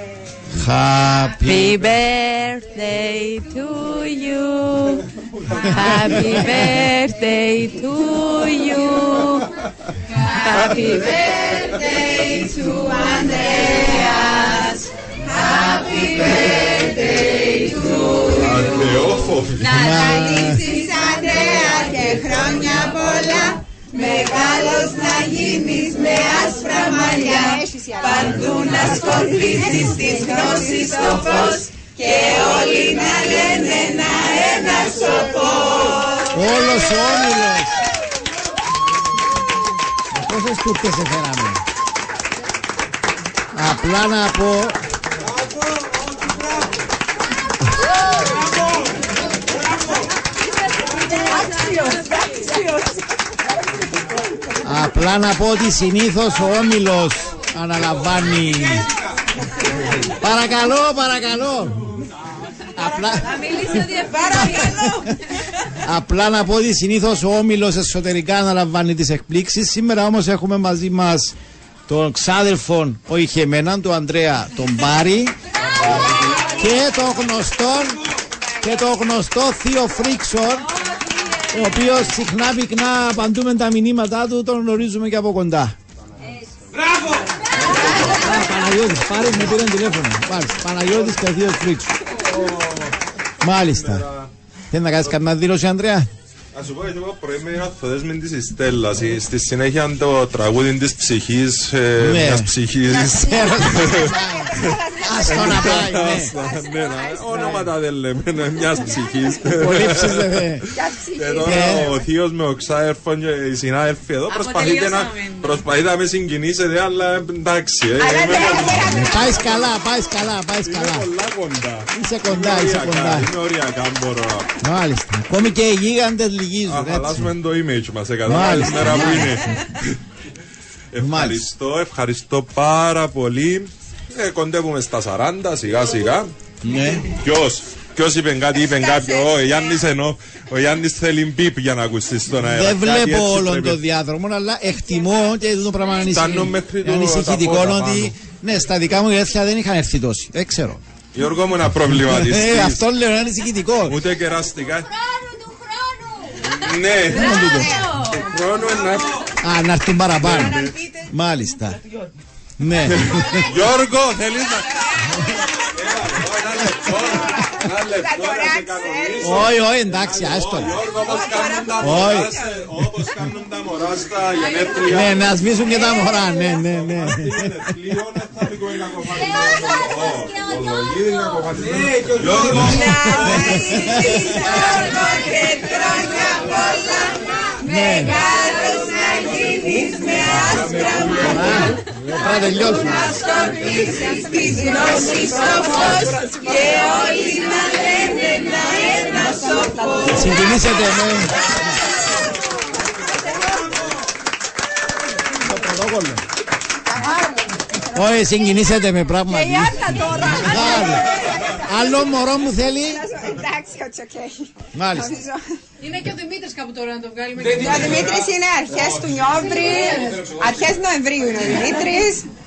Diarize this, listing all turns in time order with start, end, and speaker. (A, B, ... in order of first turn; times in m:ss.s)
0:00.5-0:01.8 A
0:01.4-0:05.0 B
0:05.6-0:09.5 B
0:10.4-0:11.2 B
0:11.2-0:14.4 C
0:14.2-0:14.6 B
0:15.3-0:18.3 C
0:18.3-0:19.8 D
0:19.6-0:36.2 C
0:19.6-0:20.6 A
0:28.4-0:29.6 B
0:36.3-0:37.8 A
0:40.1-0:41.6 A
0:43.5-0:44.8 A
0:50.9-0:53.0 C
0:54.6-0:58.8 A
1:00.1-1:01.9 A
1:02.8-1:05.1 A
1:03.7-1:04.8 E
1:05.8-1:11.3 A
1:11.9-1:15.3 A
1:15.8-1:18.0 A
1:18.6-1:20.7 A
1:21.5-1:25.8 A
1:26.7-1:27.3 D
1:27.6-1:32.0 A
1:32.2-1:32.9 D
1:33.4-1:34.0 A
1:33.5-1:34.3 D
1:34.7-1:36.1 A
1:36.5-1:59.4 D
1:42.0-1:46.3 A
1:44.6-1:45.8 C
1:46.3-1:47.7 C
1:49.4-1:50.7 A
1:50.7-1:51.9 C
1:51.4-1:52.0 A
1:57.9-1:59.6 C
1:58.8-2:01.1 A
2:00.6-2:04.5 D
2:01.9-2:03.3 A
2:04.6-2:07.3 A
2:06.7-2:10.0 D
2:08.2-2:09.6 A
2:10.9-2:16.3 D
2:11.0-2:11.5 A
2:16.6-2:17.1 A
2:17.1-2:23.8 D
2:22.3-2:30.8 A
2:26.0-2:28.1 D
2:31.1-2:32.8 D
2:31.8-2:34.0 A
2:33.8-2:34.9 D
2:36.4-2:37.4 D
2:37.1-2:37.8 A
2:38.0-2:39.3 D
2:39.4-2:41.8 A
2:40.2-2:40.8 D
2:42.6-2:43.5 A
2:42.8-3:04.1 D
2:46.9-2:49.4 C
2:49.2-2:50.8 A
2:51.0-2:51.8 C
2:51.8-2:52.4 A
2:54.8-2:57.7 A
3:02.7-3:04.5 A
3:04.2-3:07.0 C
3:07.6-3:08.2 A
3:07.7-3:11.6 C
3:10.4-3:11.2 D
3:11.2-3:13.1 A
3:12.8-3:20.6 C
3:15.4-3:16.0 B
3:20.1-3:21.4 A
3:25.4-3:26.2 A
3:27.9-3:33.0 A
3:29.3-3:35.4 C
3:34.7-3:35.2 A
3:35.9-3:37.5 E
3:37.4-3:42.3 C